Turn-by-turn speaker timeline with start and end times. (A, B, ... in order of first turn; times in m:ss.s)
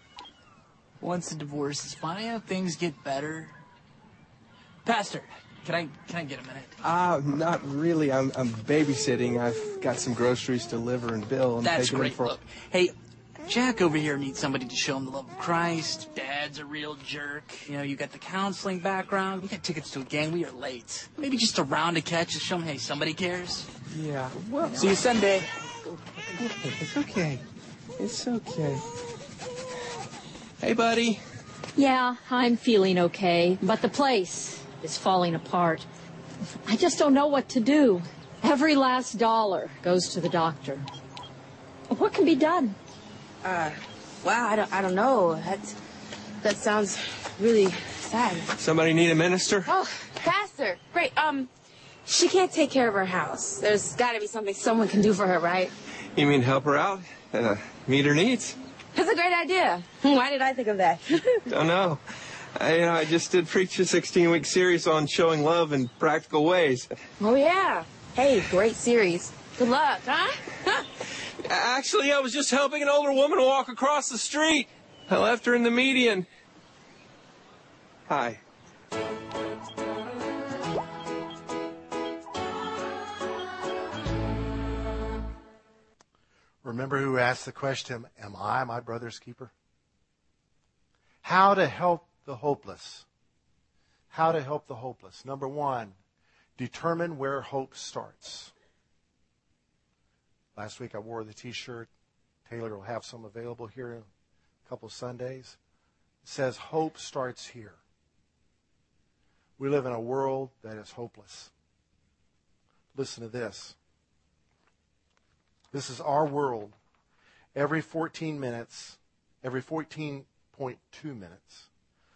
0:01.0-0:03.5 A
0:04.8-0:06.8 A
0:06.8-0:12.3 B
0:11.6-0:12.9 A
0:13.5-0:23.7 A
0:24.0-0:24.9 B
0:24.7-0:25.5 A
0:26.4-0:27.4 B
0:28.0-0:28.8 B
0:30.6-0:31.2 B
0:31.8-0:35.8 C
0:36.7-0:40.8 C
0:41.9-0:42.8 C
0:43.4-0:45.8 D
0:46.4-0:48.5 D
0:48.6-0:49.7 B
0:49.7-0:51.5 D
0:52.1-0:55.7 D
0:56.1-0:58.6 B
0:58.9-1:01.4 D
1:01.5-1:02.0 B
1:02.6-1:06.9 B
1:07.2-1:10.8 D
1:11.4-1:16.3 B
1:18.1-1:18.4 B
1:26.6-1:29.5 E
1:31.2-1:33.0 E
1:34.1-1:36.0 E
1:36.6-1:38.5 E
1:40.6-1:41.9 E
1:42.5-1:44.1 E
1:44.6-1:45.6 E
1:46.2-1:47.8 E
1:49.6-1:51.5 E
1:53.0-1:53.8 E
1:55.7-1:56.7 E
1:57.6-2:01.7 E